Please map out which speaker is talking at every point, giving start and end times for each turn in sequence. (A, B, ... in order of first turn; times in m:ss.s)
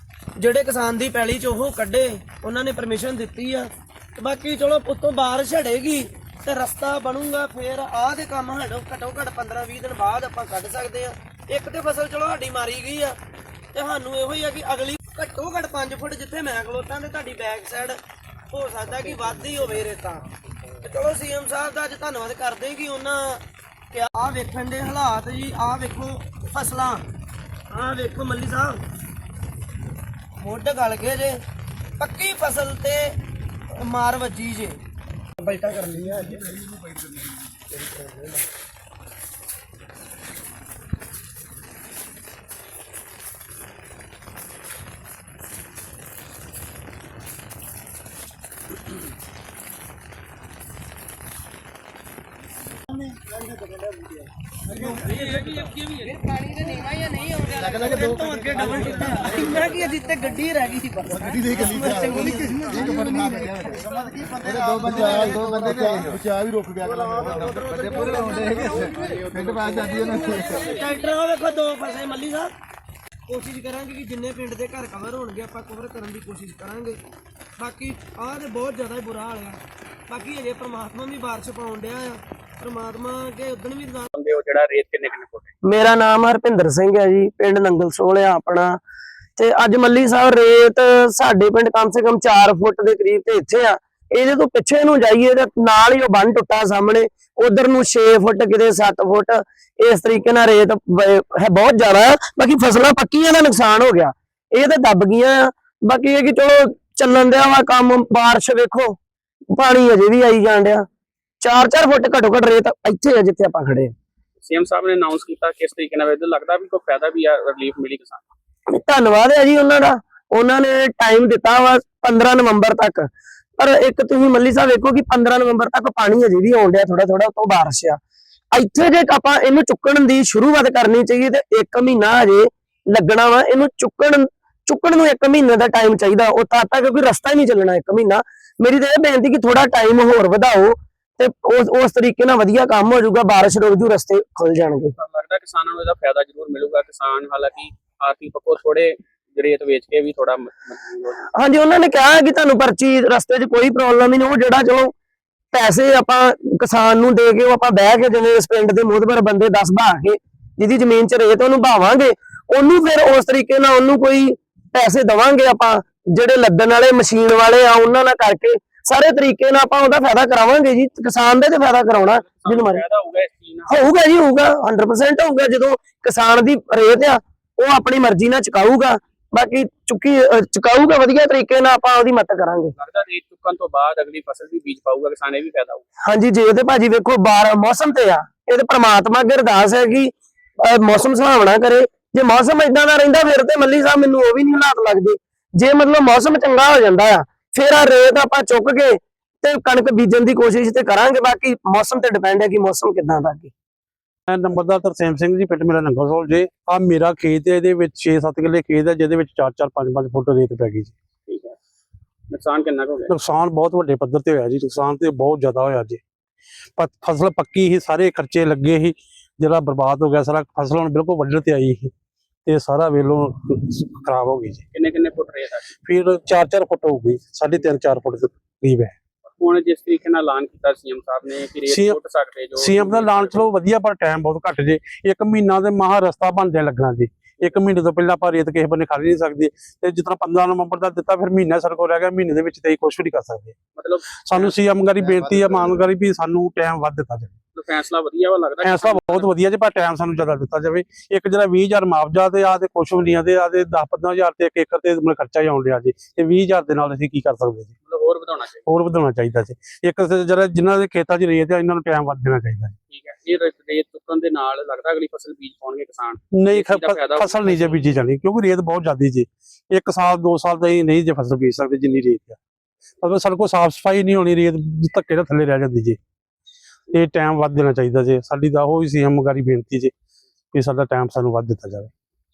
0:00.4-0:13.2 A
0:13.7-0:18.0 A
0:18.5-0:20.2 A
0:20.8-0:27.0 A
0:27.7-0:28.8 A
0:30.4-0:31.4 A
0:32.0-0:33.0 A
0:33.8-0:34.8 A
0:35.4-0:36.5 A
0:37.8-0:38.3 A
0:54.7-1:03.4 A
0:55.1-0:55.8 B
1:01.2-1:03.9 C
1:04.4-1:10.6 C
1:04.4-1:05.8 A
1:06.8-1:12.5 A
1:13.3-1:17.0 A
1:17.6-1:24.1 A
1:24.1-1:25.5 B
1:25.6-1:28.8 A
1:29.4-1:49.0 A
1:49.5-1:50.9 A
1:51.4-1:53.9 A
1:54.4-1:58.3 B
1:58.7-2:08.0 A
2:08.5-2:25.0 A
2:25.0-2:31.2 B
2:31.3-2:34.9 A
2:35.5-2:52.8 A
2:52.0-2:53.7 B
2:53.7-3:02.8 A
3:02.8-3:05.8 B
3:06.0-3:23.5 A
3:24.3-3:30.9 D
3:31.3-3:31.6 B
3:32.3-3:33.1 B
3:33.1-3:36.0 D
3:36.8-3:41.9 D
3:42.5-3:44.6 D
3:44.7-3:45.7 B
3:45.8-3:49.0 D
3:49.3-3:53.4 B
3:51.7-3:52.0 D
3:52.6-4:03.6 D
4:03.8-4:04.5 B
4:04.3-4:07.4 D
4:05.2-4:05.5 B
4:07.6-4:09.3 B
4:08.6-4:17.7 D
4:17.9-4:18.6 B
4:18.7-4:22.8 D
4:22.9-4:28.0 B
4:26.4-4:32.4 D
4:33.0-4:36.0 D
4:36.9-4:39.9 D
4:40.5-4:41.9 D